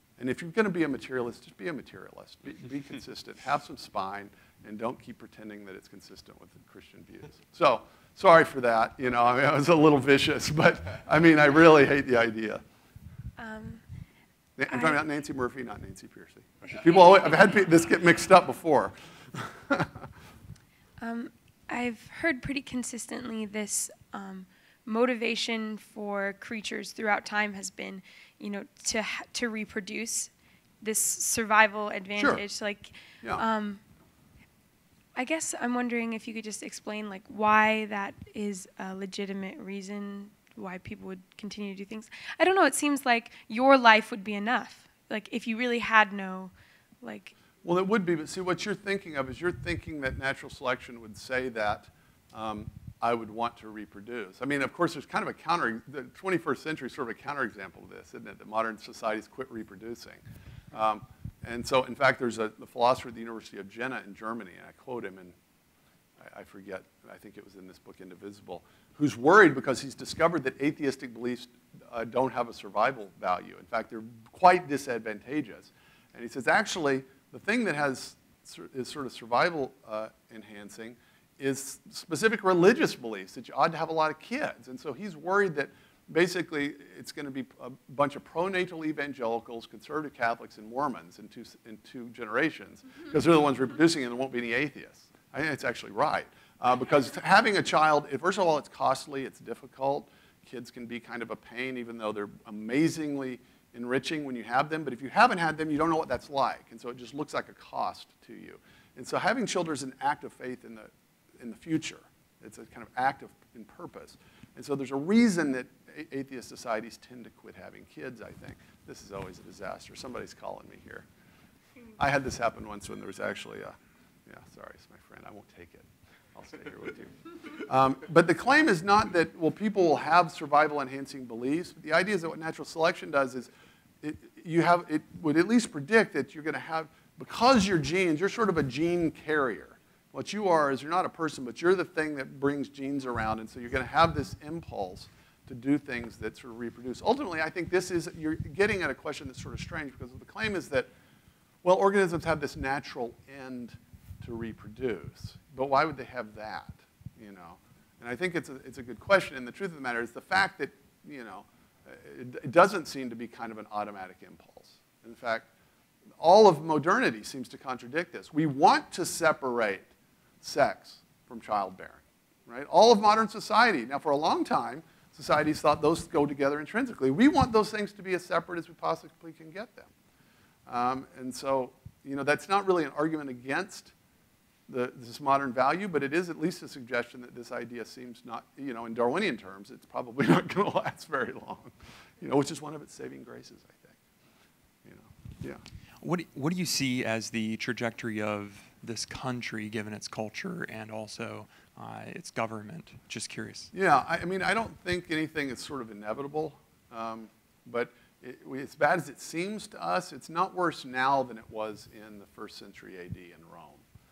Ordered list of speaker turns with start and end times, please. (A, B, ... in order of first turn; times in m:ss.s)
0:00.2-0:12.6 A
0:13.4-0:13.8 B
0:14.6-0:20.0 A
0:14.7-0:15.0 B
0:21.0-0:33.8 B
0:32.2-0:32.4 A
0:35.2-0:47.3 B
0:47.6-1:00.2 A
1:00.7-1:05.4 A
1:06.2-2:01.0 A
2:02.0-2:03.7 A
2:04.2-2:13.5 A
2:14.0-2:30.9 A
2:31.6-2:45.5 A
2:46.2-2:49.9 A
2:50.4-2:59.9 A
3:00.7-3:03.9 A
3:04.7-3:14.0 A
3:14.8-3:15.6 A
3:16.0-3:23.7 C
3:23.7-3:33.8 A